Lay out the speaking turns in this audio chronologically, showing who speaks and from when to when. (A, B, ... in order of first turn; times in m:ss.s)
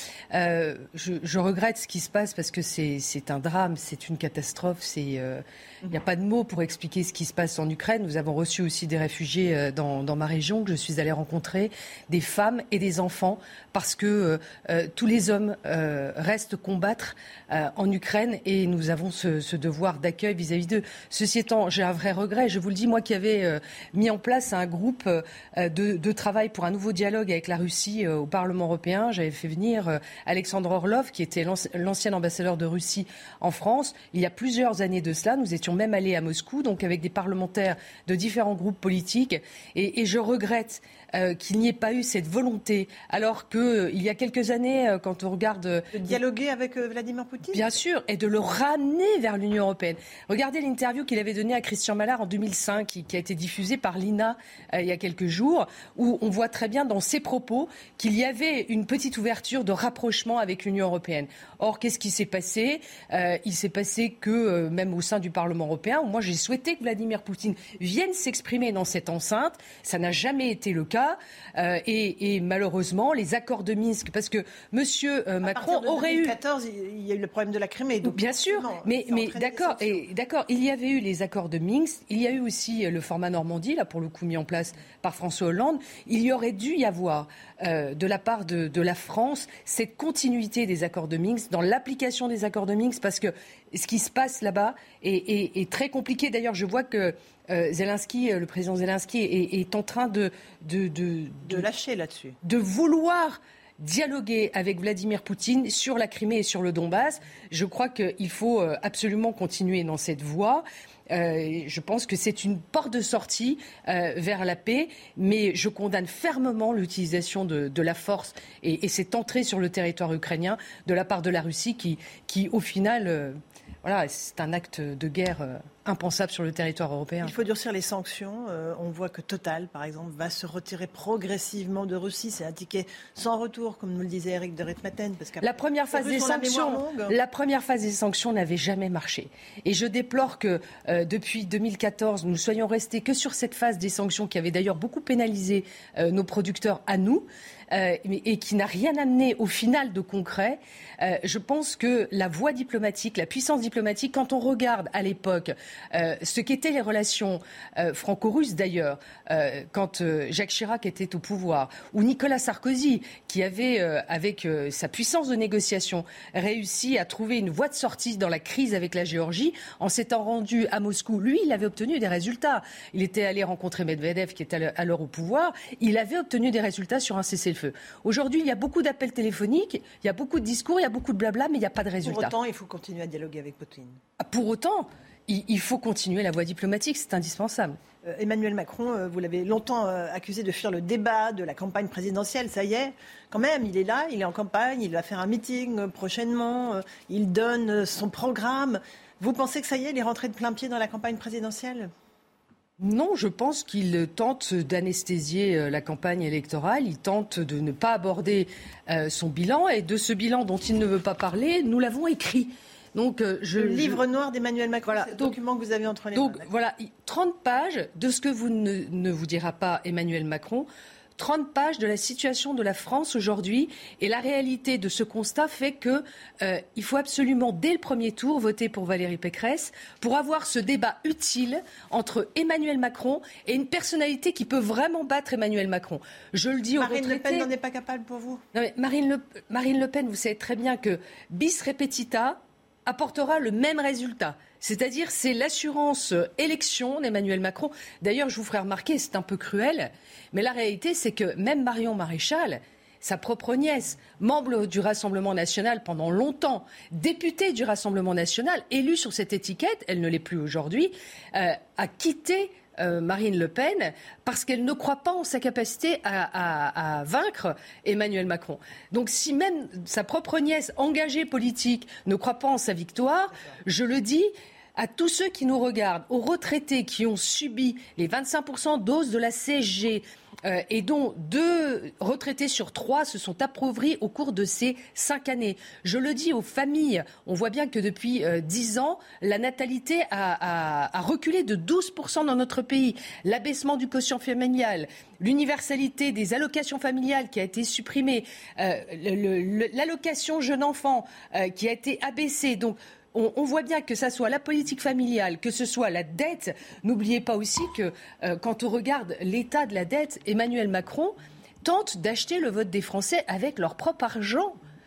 0:00.3-0:46.2 A
0:45.9-0:47.6 B
0:47.5-1:16.4 A
1:15.4-1:20.0 B
1:18.0-1:41.7 A
1:41.5-1:42.4 B
1:42.4-2:07.4 A
2:07.2-2:17.1 B
2:15.4-3:02.3 A
3:02.0-3:04.0 B
3:04.2-3:07.8 A
3:08.0-3:21.9 B
3:22.8-3:34.0 A
3:33.6-3:36.4 B
3:34.8-3:35.4 A
3:36.1-3:57.5 A
3:56.8-3:58.4 B
3:58.5-5:14.6 A